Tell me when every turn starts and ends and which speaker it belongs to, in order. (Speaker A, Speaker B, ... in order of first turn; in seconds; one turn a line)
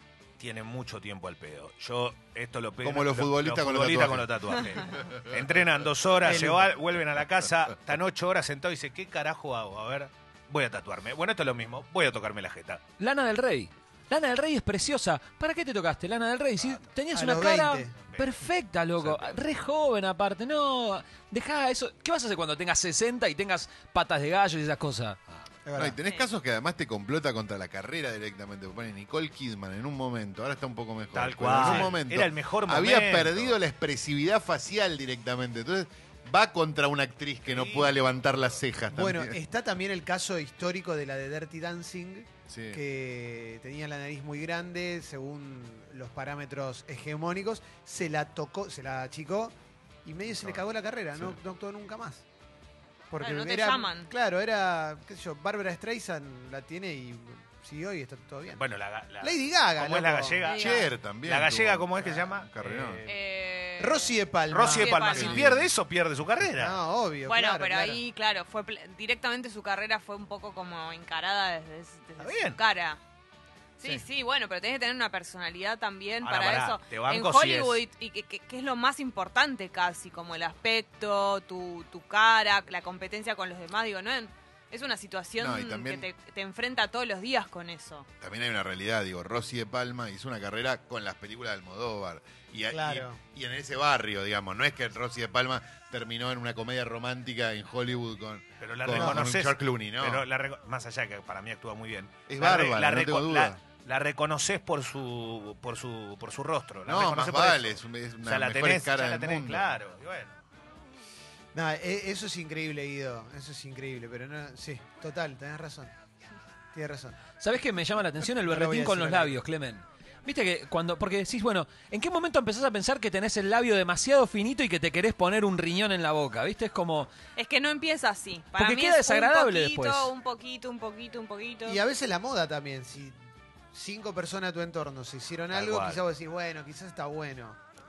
Speaker A: 0.4-12.8
Speaker B: 2.8-5.1
Speaker C: 6.2-6.7
Speaker D: 13.0-25.2
Speaker C: 17.1-18.0
Speaker A: 18.0-18.4
Speaker A: 19.0-19.4
Speaker C: 25.6-26.0
Speaker B: 25.8-39.4
Speaker A: 31.1-33.6
Speaker C: 31.6-31.9
Speaker A: 37.5-37.9
Speaker C: 38.9-49.5
Speaker B: 42.5-42.8
Speaker C: 50.0-52.2
Speaker B: 50.3-50.6
Speaker C: 53.1-58.6
Speaker E: 53.2-54.1
Speaker A: 58.5-63.1
Speaker C: 59.2-60.4
Speaker E: 60.4-60.9
Speaker B: 60.5-63.0
Speaker E: 63.0-65.4
Speaker C: 63.8-65.3
Speaker A: 64.5-66.8
Speaker B: 65.1-65.7
Speaker C: 66.5-68.0
Speaker E: 67.2-73.0
Speaker A: 72.2-72.6
Speaker E: 73.8-88.1
Speaker A: 76.2-77.8
Speaker B: 85.4-86.1
Speaker B: 88.2-100.2
Speaker C: 92.7-93.2
Speaker A: 98.6-110.4
Speaker C: 98.9-99.3
Speaker B: 102.3-103.6
Speaker B: 106.8-109.7
Speaker C: 111.5-115.9
Speaker C: 116.7-117.2
Speaker D: 117.4-127.1
Speaker C: 118.4-119.4
Speaker E: 127.3-131.8
Speaker D: 128.6-130.1
Speaker C: 131.7-133.2
Speaker C: 133.7-137.6
Speaker A: 135.5-136.0